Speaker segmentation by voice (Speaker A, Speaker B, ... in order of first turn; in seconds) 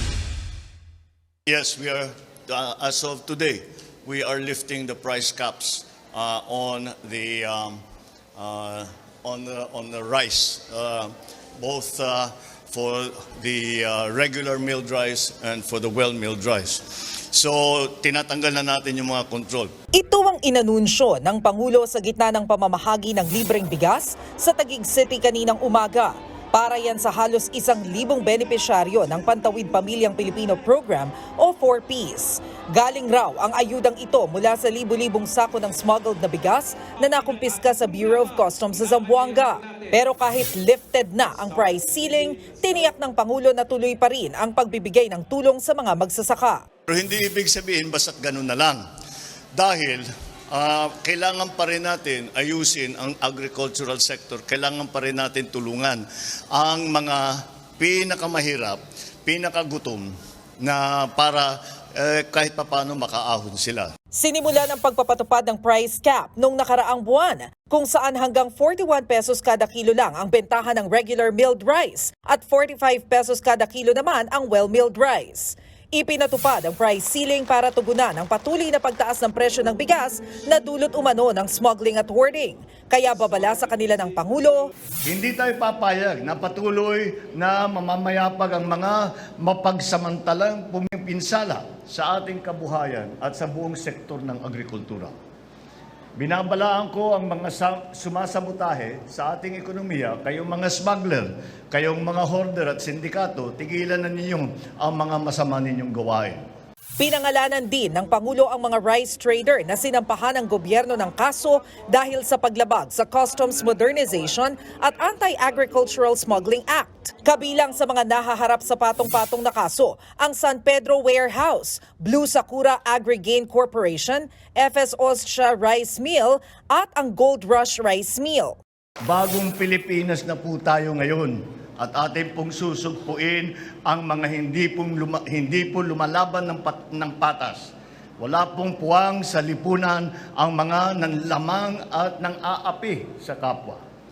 Speaker A: 1.5-7.8, 8.4-19.7, 46.9-48.8, 49.5-60.1, 60.6-63.9, 85.0-95.1, 96.2-106.4, 129.1-143.8
Speaker B: 19.9-46.6, 64.1-84.7, 107.0-128.6